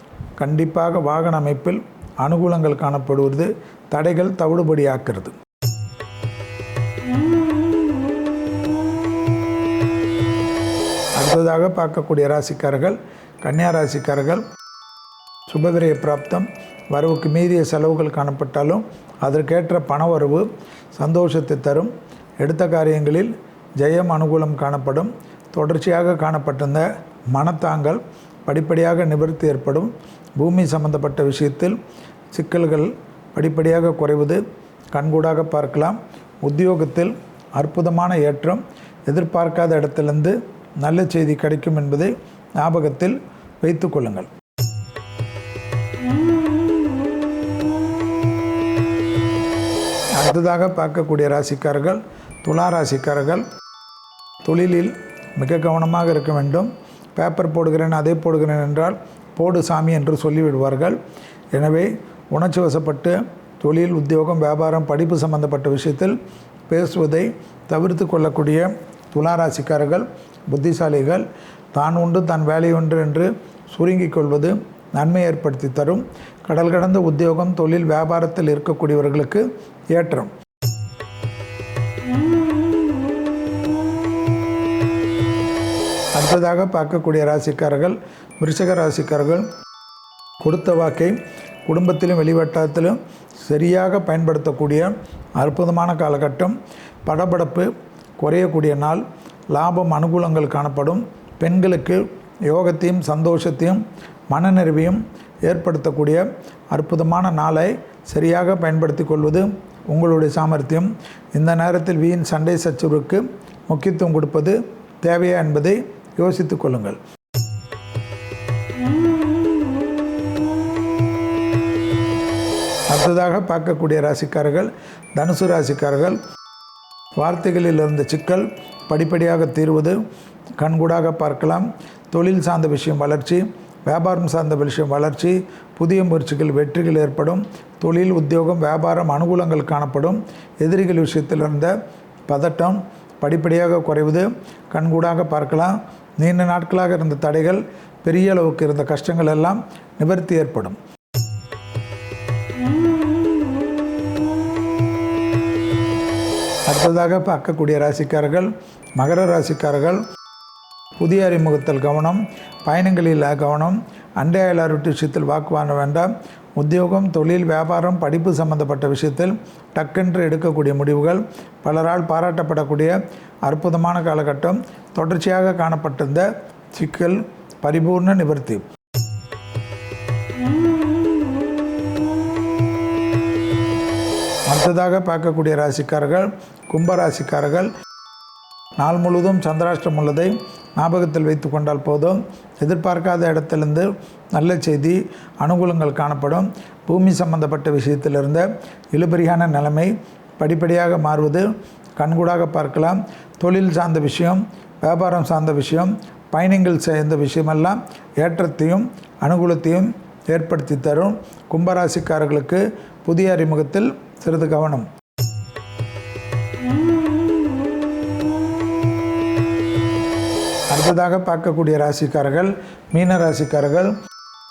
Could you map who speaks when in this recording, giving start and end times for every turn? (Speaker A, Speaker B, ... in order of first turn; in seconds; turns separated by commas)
Speaker A: 0.4-5.3, Speaker A: 11.2-14.4, Speaker A: 15.5-31.8, Speaker A: 32.3-34.4, Speaker A: 34.9-44.3, Speaker A: 50.1-53.5, Speaker A: 54.4-61.0, Speaker A: 61.5-66.2, Speaker A: 66.7-80.3, Speaker A: 86.1-89.5, Speaker A: 90.4-117.0, Speaker A: 122.9-126.2, Speaker A: 127.2-130.0, Speaker A: 130.6-141.7, Speaker A: 142.3-150.8, Speaker A: 156.7-160.0, Speaker A: 161.0-178.6, Speaker A: 184.5-187.7, Speaker A: 188.8-214.9, Speaker A: 220.7-223.9